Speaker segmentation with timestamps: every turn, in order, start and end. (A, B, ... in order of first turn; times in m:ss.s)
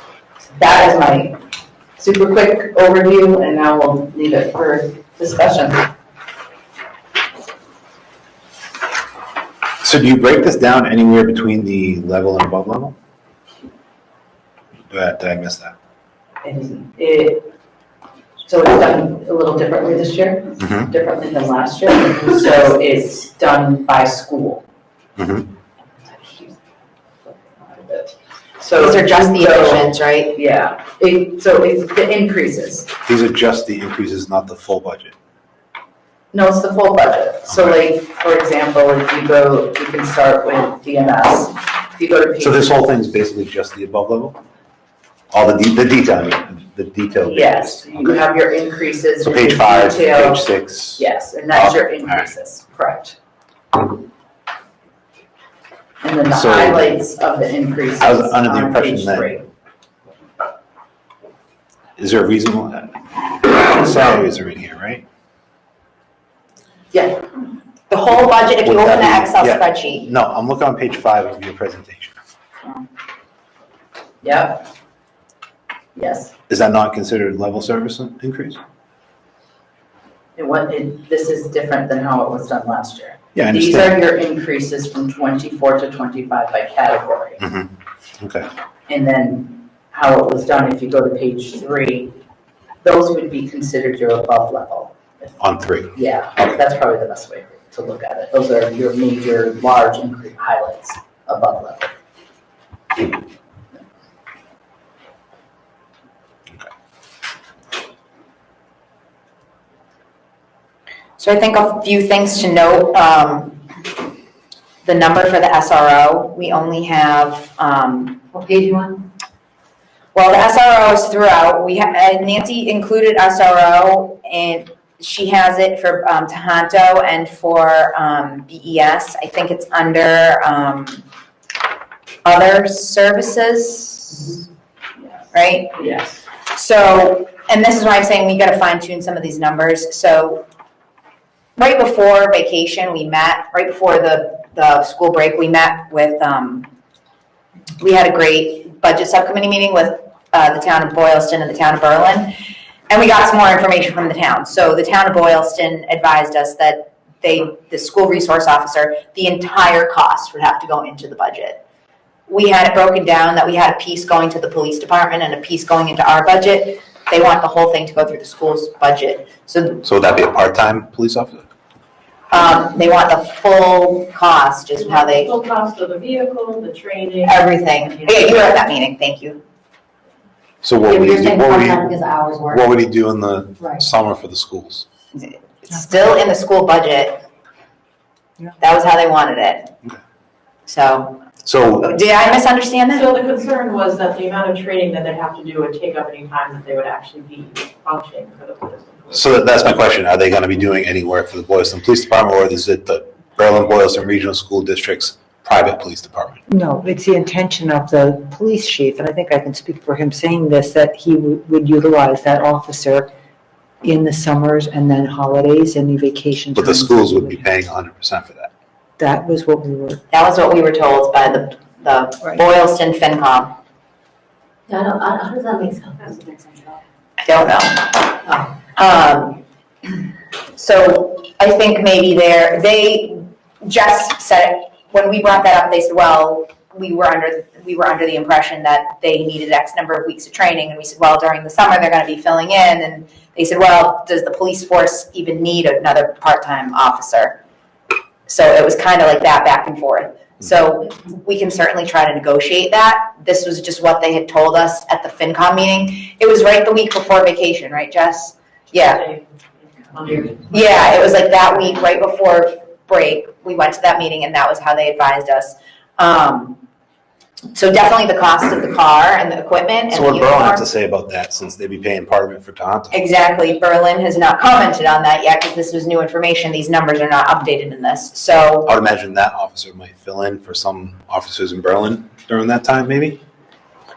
0:00.5-0:01.4 A
0:02.0-0:05.9 A
0:09.8-0:13.0 B
0:14.9-0:15.7 B
0:16.4-0:17.5 A
0:18.4-0:24.6 A
0:20.6-0:20.9 B
0:25.2-0:25.5 B
0:26.0-0:26.6 A
0:27.4-0:32.9 A
0:28.7-0:30.4 C
0:33.0-0:35.1 B
0:36.3-0:42.8 A
0:37.5-0:37.8 B
0:42.4-0:44.4 B
0:45.3-0:48.2 B
0:47.3-0:53.2 A
0:49.2-0:52.3 B
0:56.0-0:59.5 A
0:56.3-0:56.9 B
0:58.0-0:59.3 B
1:02.0-1:05.0 B
1:06.9-1:07.2 A
1:07.9-1:10.1 C
1:08.1-1:12.2 B
1:14.2-1:14.7 A
1:15.9-1:16.3 A
1:16.5-1:18.6 B
1:20.4-1:27.4 A
1:23.3-1:24.0 B
1:27.4-1:28.5 B
1:28.9-1:32.2 A
1:32.8-1:35.4 A
1:35.4-1:35.9 B
1:35.9-1:41.9 A
1:51.2-1:53.7 C
1:54.8-1:58.2 C
2:00.1-2:11.0 C
2:12.2-2:14.4 C
2:15.3-2:15.8 C
2:15.8-2:16.2 A
2:16.5-2:20.4 C
2:21.6-2:26.7 C
2:27.8-2:32.3 C
2:32.9-2:41.6 C
2:42.3-2:49.8 C
2:49.8-2:51.5 B
2:52.3-2:55.3 C
2:54.8-2:58.3 D
2:57.2-2:59.4 C
3:00.6-3:04.8 B
3:00.9-3:02.6 E
3:05.2-3:07.2 C
3:08.6-3:09.7 C
3:10.7-3:13.1 C
3:11.4-3:12.0 B
3:12.9-3:19.4 D
3:19.1-3:26.4 B
3:26.6-3:33.1 F
3:33.8-3:37.4 F
3:36.5-3:38.5 B
3:39.0-3:40.0 F
3:40.1-3:43.5 C
3:44.7-3:46.3 E
3:47.2-3:49.4 C
3:50.5-4:07.4 C
4:08.3-4:19.0 C
4:18.7-4:21.1 D
4:20.4-4:26.6 C
4:27.5-4:30.7 C
4:29.9-4:33.0 B
4:32.9-4:38.7 C
4:38.6-4:43.2 B